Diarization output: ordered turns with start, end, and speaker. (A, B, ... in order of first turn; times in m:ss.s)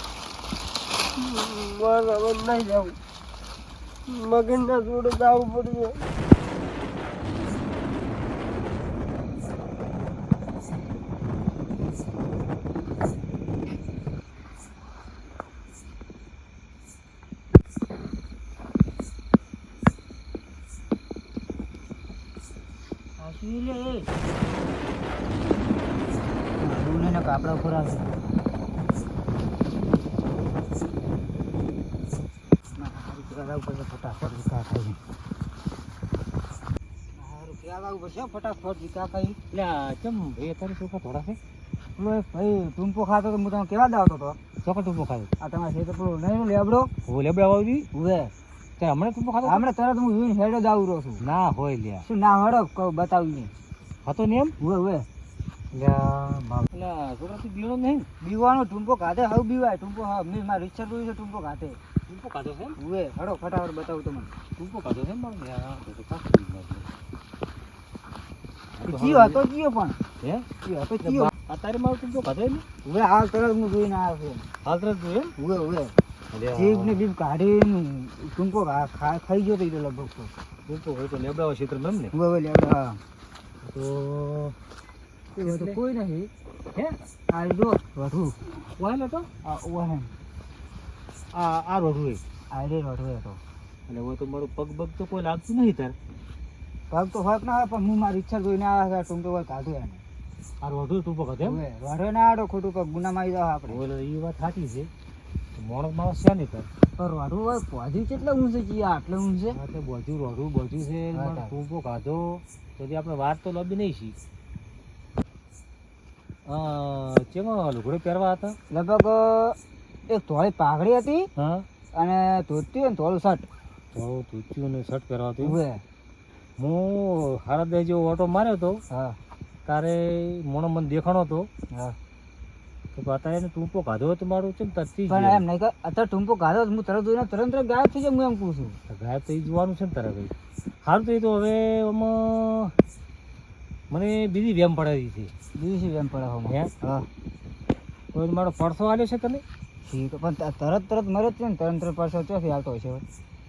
0:01.2-0:03.0 A
0:04.1-0:06.0 A
0:23.2-0:24.0 B
0:26.6-0:28.1 B
0:32.8-0:35.0 B
0:37.1-0:39.4 B
0:39.5-0:41.4 C
0:42.0-0:44.4 B
0:44.6-0:45.3 C
0:45.4-0:46.9 B
0:47.0-0:47.9 C
0:47.9-0:48.3 B
0:48.8-0:49.7 C
0:49.4-0:51.2 B
0:51.2-0:52.0 C
0:52.0-0:53.5 B
0:54.0-0:54.6 C
0:54.6-0:55.1 B
0:55.7-0:58.1 C
0:58.2-1:01.8 B
1:02.1-1:02.8 C
1:02.8-1:04.3 B
1:04.6-1:06.9 C
1:08.8-1:09.4 C
1:08.9-1:10.0 B
1:10.2-1:10.5 C
1:10.6-1:11.3 B
1:11.0-1:12.6 C
1:12.8-1:14.4 B
1:14.6-1:15.3 C
1:15.4-1:15.9 B
1:16.3-1:17.0 C
1:16.5-1:20.3 B
1:20.6-1:22.1 C
1:22.1-1:23.0 B
1:23.6-1:24.6 C
1:25.4-1:26.3 B
1:25.4-1:25.8 C
1:27.3-1:28.4 B
1:28.7-1:29.3 C
1:29.4-1:30.1 B
1:31.3-1:32.2 C
1:32.5-1:33.4 B
1:33.9-1:35.9 C
1:36.9-1:40.0 B
1:40.6-1:41.6 C
1:41.4-1:43.8 B
1:43.7-1:44.9 C
1:45.6-1:46.7 C
1:47.0-1:49.6 B
1:49.5-1:54.2 C
1:51.1-1:51.5 B
1:56.4-1:58.6 C
1:58.7-2:01.3 B
2:01.3-2:01.6 C
2:01.9-2:03.5 B
2:03.9-2:05.6 C
2:05.4-2:05.8 B
2:06.6-2:08.8 C
2:08.9-2:09.2 B
2:09.6-2:11.5 C
2:12.9-2:15.4 C
2:15.1-2:18.8 B
2:18.9-2:22.7 C
2:23.9-2:25.3 C
2:25.5-2:27.1 B
2:26.4-2:26.7 C
2:28.1-2:29.4 C
2:29.8-2:33.0 B